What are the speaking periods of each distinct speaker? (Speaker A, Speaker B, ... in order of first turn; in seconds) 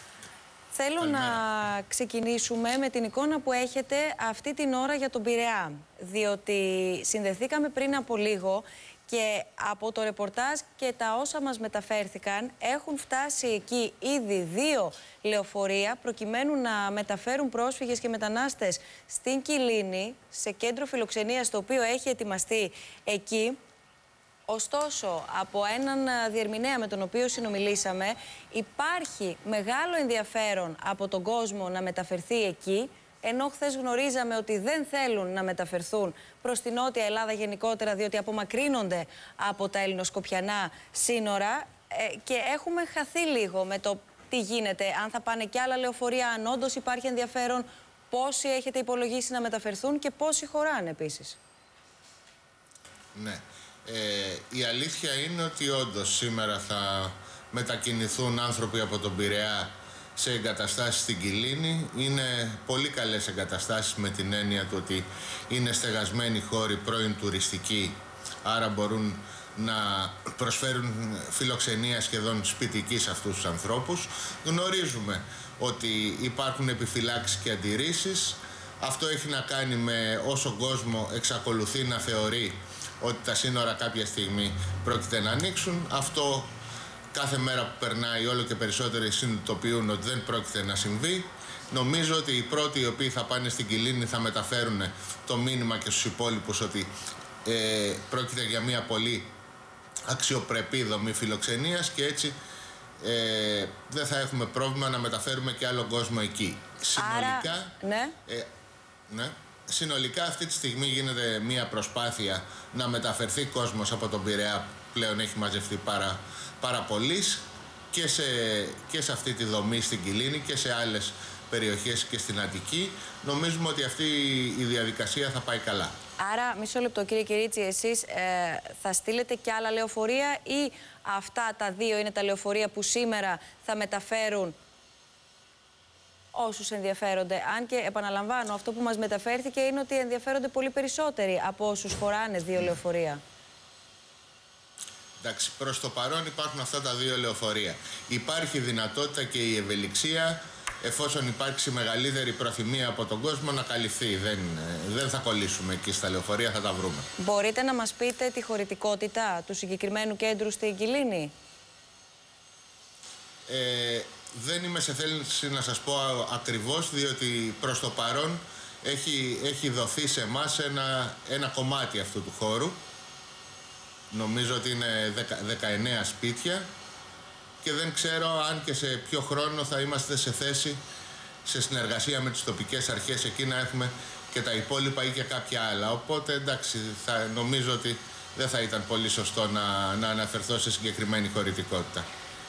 Speaker A: 0.7-23.6, 24.5-51.4, 107.0-108.2, 126.2-134.6, 136.3-143.2, 157.2-161.3
Speaker B: 1.0-1.4, 53.1-86.5, 87.1-96.9, 97.4-99.3, 100.1-102.3, 103.0-108.5, 109.1-126.0, 145.2-157.1, 163.5-172.8, 174.1-176.7, 177.6-180.8, 181.4-192.1